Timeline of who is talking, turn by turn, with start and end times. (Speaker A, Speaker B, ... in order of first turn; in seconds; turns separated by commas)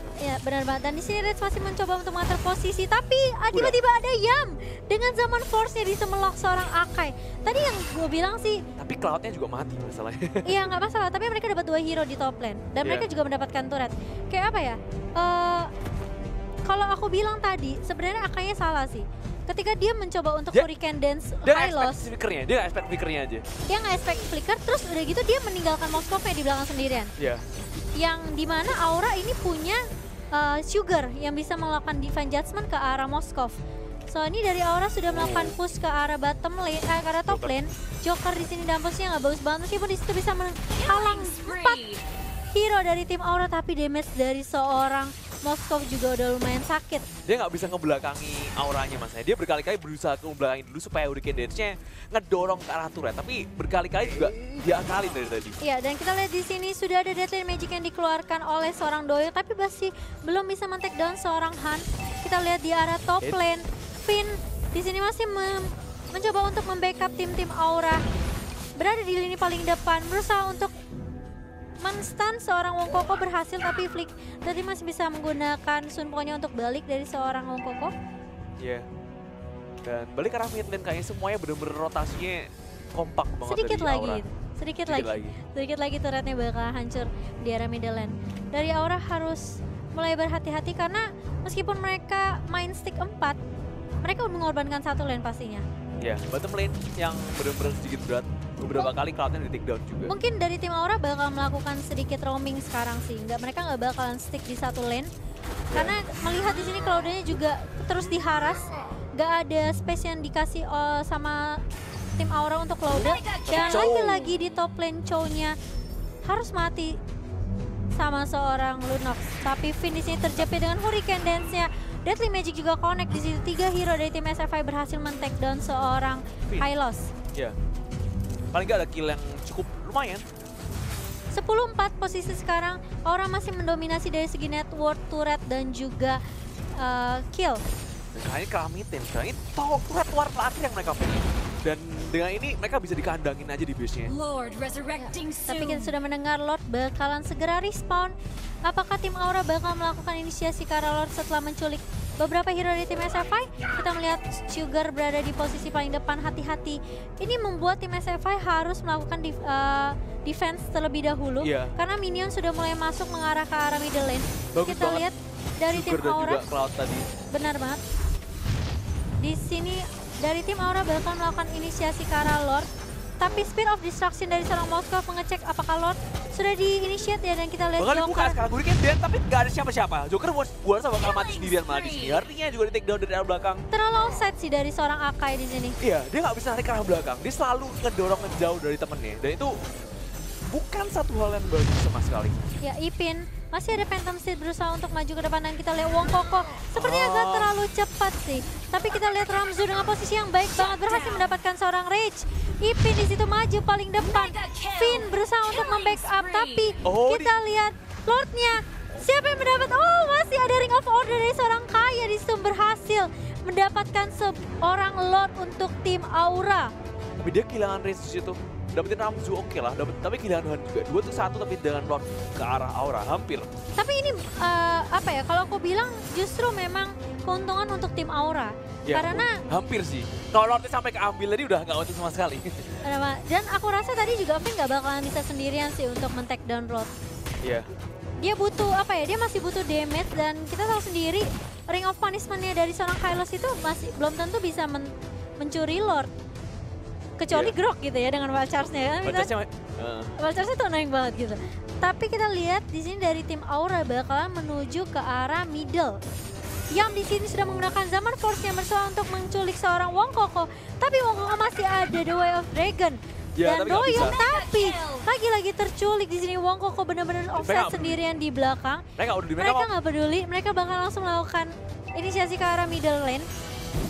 Speaker A: 0.2-8.6, Speaker B: 3.5-3.8, Speaker B: 8.8-10.7, Speaker A: 10.4-15.7, Speaker B: 12.8-13.1, Speaker A: 16.6-22.1, Speaker B: 21.4-23.4, Speaker A: 23.7-27.1, Speaker B: 27.2-27.4, Speaker A: 28.0-29.8, Speaker A: 30.3-33.6, Speaker A: 34.1-41.9, Speaker B: 35.1-35.6, Speaker B: 37.3-37.5, Speaker C: 40.8-42.0, Speaker A: 42.5-47.0, Speaker B: 47.2-55.6, Speaker A: 55.6-68.0, Speaker A: 68.8-70.7, Speaker A: 71.8-77.9, Speaker B: 78.6-78.9, Speaker B: 79.8-84.2, Speaker A: 83.5-93.4, Speaker B: 84.9-85.4, Speaker A: 94.0-95.6, Speaker B: 96.0-100.1, Speaker A: 100.0-105.1, Speaker B: 105.7-106.0, Speaker A: 105.7-111.6, Speaker A: 112.2-115.5, Speaker C: 113.0-113.9, Speaker B: 113.5-114.3, Speaker A: 116.2-117.0, Speaker A: 117.9-127.1, Speaker B: 128.5-130.2, Speaker A: 131.3-136.2, Speaker A: 136.7-137.6, Speaker B: 138.1-144.1, Speaker C: 144.1-145.9, Speaker A: 145.0-148.1, Speaker A: 148.7-166.4, Speaker B: 161.4-161.7, Speaker B: 164.5-165.1, Speaker B: 165.7-167.1, Speaker A: 167.3-167.8, Speaker A: 169.2-172.7, Speaker A: 173.2-178.4, Speaker B: 173.2-173.5, Speaker B: 177.8-183.6, Speaker C: 181.1-182.2, Speaker A: 183.7-185.8, Speaker B: 185.8-189.5, Speaker B: 190.5-192.4, Speaker A: 192.6-216.7, Speaker B: 196.7-197.5, Speaker C: 200.6-201.3, Speaker C: 204.0-206.8, Speaker B: 206.8-207.4, Speaker B: 217.2-223.5, Speaker A: 223.8-229.4, Speaker B: 228.9-232.7, Speaker A: 232.8-236.9, Speaker B: 237.4-237.7, Speaker A: 238.2-246.1, Speaker A: 247.2-249.3, Speaker B: 249.0-250.2, Speaker A: 250.2-256.0, Speaker A: 256.7-268.9, Speaker B: 263.4-264.2, Speaker C: 263.9-265.1, Speaker B: 267.3-268.0, Speaker B: 269.0-269.7, Speaker A: 269.4-273.3